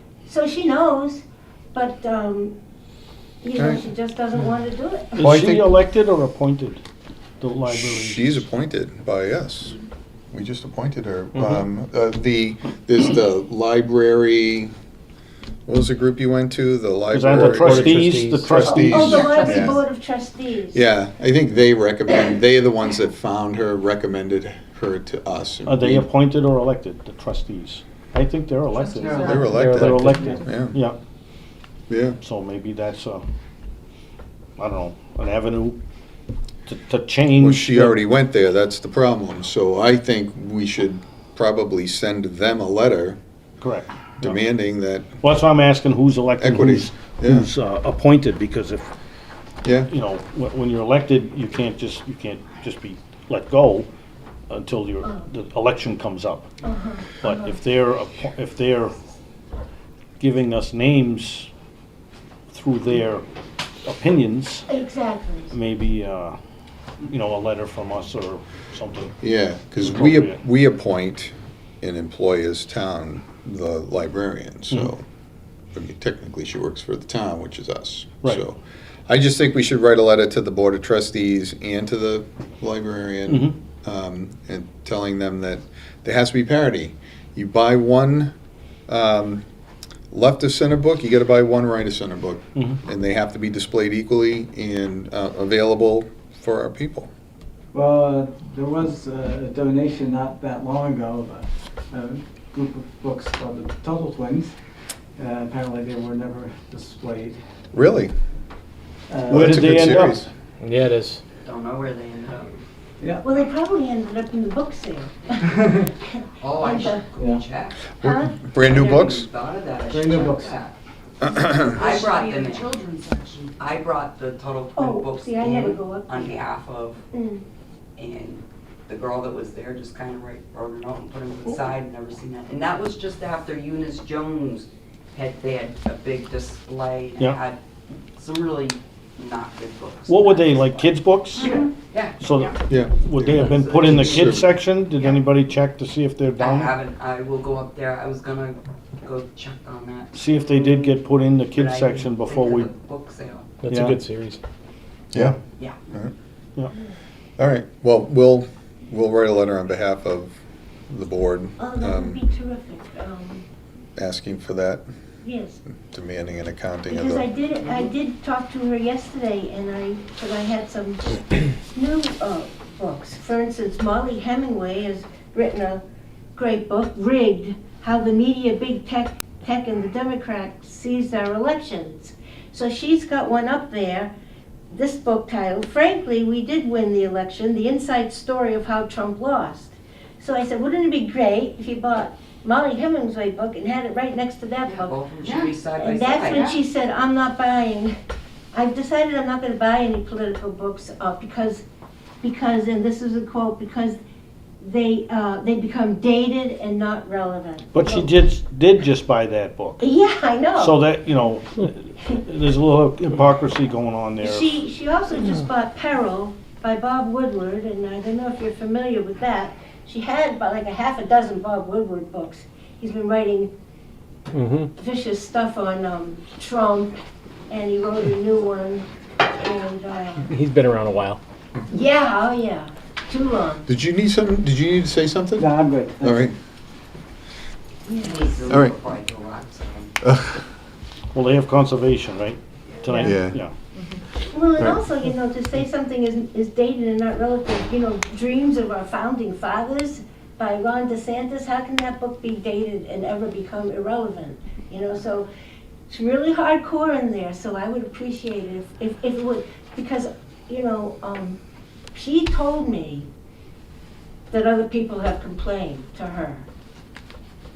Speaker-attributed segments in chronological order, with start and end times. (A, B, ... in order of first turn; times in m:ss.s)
0:00.2-0:02.5 A
0:03.4-0:05.5 A
0:05.1-0:06.8 B
0:05.2-0:05.7 C
0:07.4-0:08.3 B
0:07.7-0:09.8 C
0:10.3-0:14.7 C
0:15.6-0:19.8 C
0:17.1-0:19.1 B
0:17.5-0:19.2 D
0:18.6-0:20.8 A
0:19.2-0:19.7 E
0:20.7-0:26.0 C
0:25.7-0:31.0 B
0:28.7-0:29.6 E
0:29.1-0:30.8 C
0:29.4-0:30.4 D
0:31.9-0:32.2 C
0:32.2-0:33.2 B
0:34.6-0:35.8 B
0:36.7-0:38.0 B
0:37.4-0:43.2 C
0:43.6-0:44.4 B
0:44.2-0:45.1 C
0:45.2-0:48.9 B
0:46.4-0:47.5 C
0:49.6-0:49.9 C
0:49.9-0:53.9 B
0:54.5-0:56.5 B
0:56.6-0:57.6 A
0:57.2-0:58.9 B
1:00.2-1:01.5 B
1:02.5-1:03.2 B
1:03.8-1:04.7 B
1:04.7-1:05.6 A
1:05.5-1:06.4 B
1:07.0-1:09.1 B
1:09.2-1:15.0 C
1:09.8-1:10.4 B
1:15.7-1:28.3 C
1:23.3-1:23.5 B
1:28.9-1:29.4 C
1:30.1-1:37.1 C
1:37.7-1:44.5 F
1:45.2-1:47.4 F
1:47.7-1:48.1 C
1:49.1-1:50.0 F
1:49.3-1:50.3 C
1:49.3-1:50.3 B
1:50.6-1:51.2 D
1:51.4-1:52.6 G
1:53.2-1:57.0 A
1:56.4-1:57.8 G
1:57.2-1:57.4 F
1:58.0-1:59.2 C
1:58.0-1:58.8 A
1:58.6-2:00.7 G
1:59.9-2:00.6 F
2:01.2-2:01.7 C
2:01.4-2:02.7 G
2:01.5-2:03.6 E
2:03.6-2:07.0 G
2:04.8-2:06.4 A
2:07.1-2:07.4 A
2:08.0-2:17.6 G
2:18.1-2:22.2 G
2:20.1-2:21.6 B
2:21.4-2:21.7 E
2:22.2-2:26.7 B
2:22.7-2:24.4 C
2:23.3-2:25.1 G
2:26.4-2:30.2 G
2:30.1-2:32.7 B
2:31.5-2:33.6 G
2:33.6-2:34.4 D
2:33.6-2:34.0 B
2:37.4-2:40.4 C
2:40.9-2:42.2 C
2:41.6-2:43.4 A
2:44.0-2:44.8 C
2:45.2-2:45.6 A
2:45.8-2:47.2 C
2:46.9-2:55.8 A
2:56.3-3:04.1 A
3:04.7-3:14.9 A
3:14.7-3:16.4 G
3:15.2-3:15.5 E
3:15.8-3:17.9 A
3:16.2-3:16.6 E
3:18.5-3:21.6 A
3:22.2-3:24.0 A
3:24.6-3:28.1 A
3:27.7-3:29.8 B
3:29.8-3:30.8 A
3:30.6-3:34.5 B
3:34.2-3:43.5 A
3:44.8-3:47.0 A
3:47.5-3:50.3 A
3:50.4-3:51.2 D
3:51.7-3:53.7 A
3:53.7-3:55.5 C
3:55.4-3:56.3 F
3:56.0-3:56.3 C
3:57.8-3:58.4 A
3:58.0-3:59.9 G
4:00.0-4:00.4 C
4:01.1-4:03.5 B
4:02.7-4:03.1 G
4:03.0-4:03.4 C
4:04.3-4:15.3 A
4:15.9-4:21.4 A
4:21.9-4:23.1 A
4:24.3-4:26.5 A